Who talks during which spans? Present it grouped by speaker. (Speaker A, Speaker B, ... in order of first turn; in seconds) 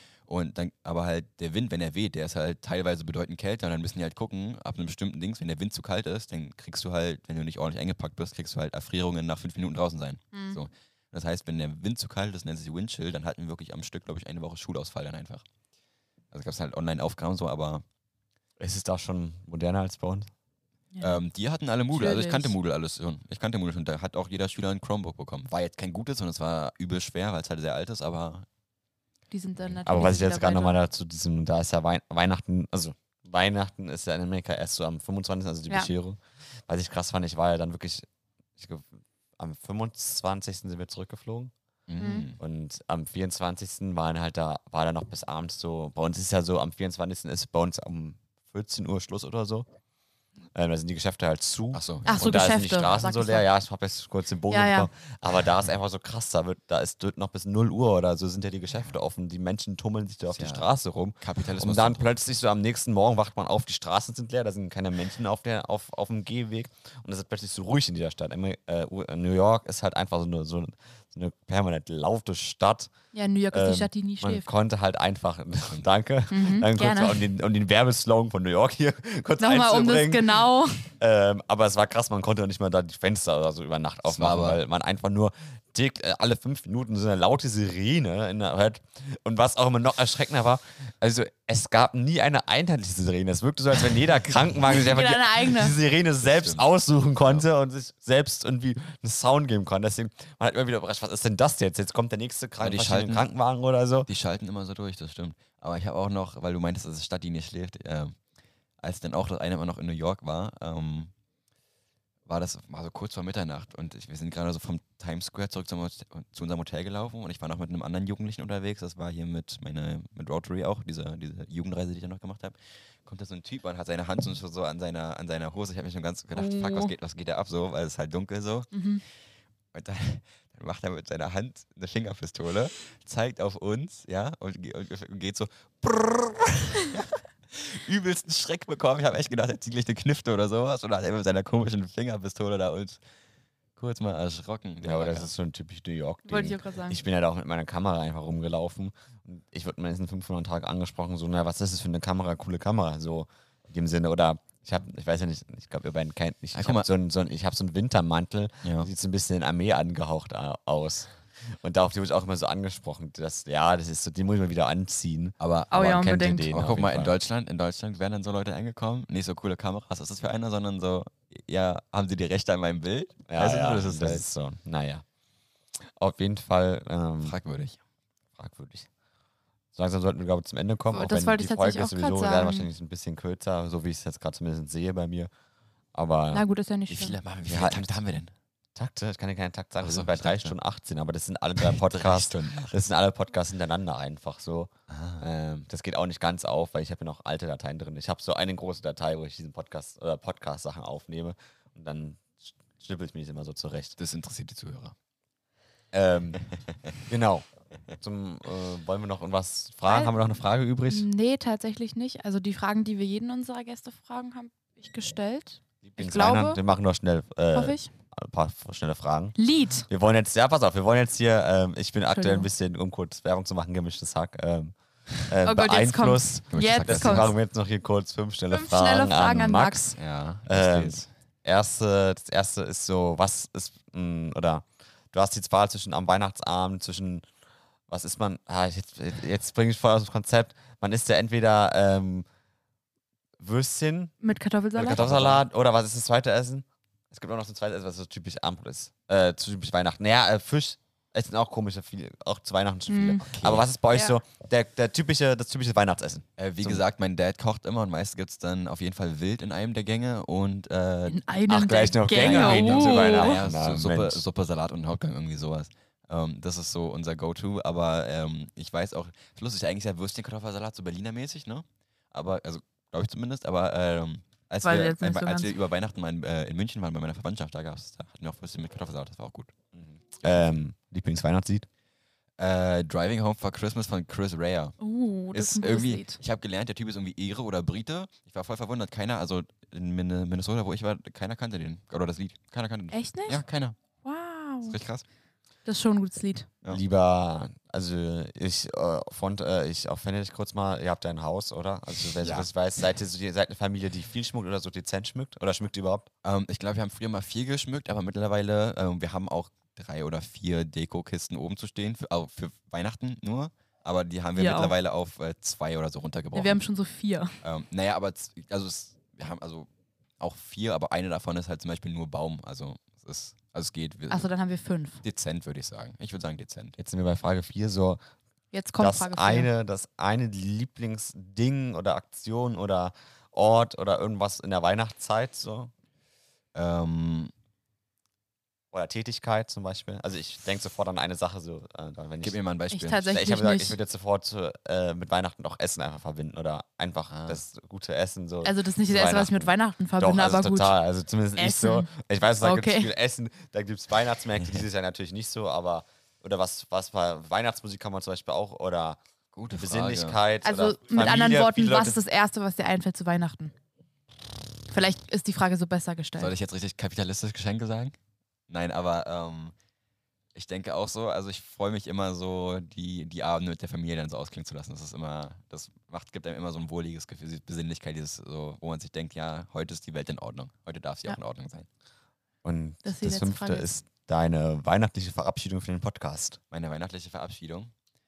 Speaker A: 0.3-15.4, 16.3-17.8, 21.0-28.4, 41.9-42.4, 51.7-52.2, 60.4-60.6, 61.2-62.0, 84.1-84.6, 96.2-96.6, 102.6-103.2, 104.1-108.2, 108.8-111.1, 112.3-128.7, 129.7-143.0, 143.8-145.3, 156.5-156.9, 158.6-158.9, 165.4-165.9, 166.5-174.2, 177.2-177.8, 186.9-188.3, 189.8-190.5, 191.6-192.7, 194.9-195.2, 204.0-204.9, 226.5-227.3, 230.0-231.1, 244.8-245.4, 253.2-253.7, 256.4-261.4, 262.1-279.5, 282.4-284.8, 285.3-293.8, 294.6-295.0, 302.1-302.5, 306.2-316.6, 317.4-319.7, 320.2-324.3, 325.0-326.8, 336.5-337.3, 342.2-343.1, 347.1-347.4, 359.3-360.2, 366.2-367.9, 368.5-369.5, 370.3-381.7, 386.5-387.7
Speaker B: 10.3-10.6, 20.9-21.2, 21.9-22.6, 29.3-30.8, 42.0-42.3, 52.0-53.5, 54.5-54.9, 73.1-74.5, 76.3-77.2, 79.4-80.9, 94.7-95.8, 126.3-126.9, 128.7-129.0, 146.3-147.0, 165.7-166.5, 180.9-182.7, 186.3-187.2, 209.9-210.1, 210.9-216.6, 217.5-217.9, 219.4-219.8, 222.1-222.5, 225.4-227.3, 228.5-229.8, 244.2-245.0, 252.9-253.2, 253.9-254.2, 261.1-263.4, 274.6-275.5, 284.8-286.2, 292.9-293.4, 294.0-294.8, 295.6-296.5, 314.3-314.7, 316.3-317.3, 324.1-325.0, 328.5-329.5, 342.7-343.8, 348.4-350.7, 351.4-351.9, 352.4-352.9, 360.4-363.5, 364.7-366.3, 382.8-383.7
Speaker C: 18.6-20.3, 29.9-38.0, 38.6-41.5, 42.4-49.7, 50.5-72.9, 73.5-104.1, 144.8-167.1, 173.3-175.0, 176.0-177.4, 178.4-178.9, 179.7-185.3, 185.9-186.4, 187.4-188.1, 188.8-203.9, 205.9-206.4, 207.1-207.4, 208.0-211.1, 215.8-219.3, 219.9-224.7, 225.3-237.3, 237.9-242.2, 243.4-244.1, 244.8-256.8, 261.5-264.2, 279.7-281.7, 296.7-306.1, 326.8-328.0, 328.8-335.7, 338.7-342.4, 343.1-359.0, 359.5-362.0, 382.4-386.4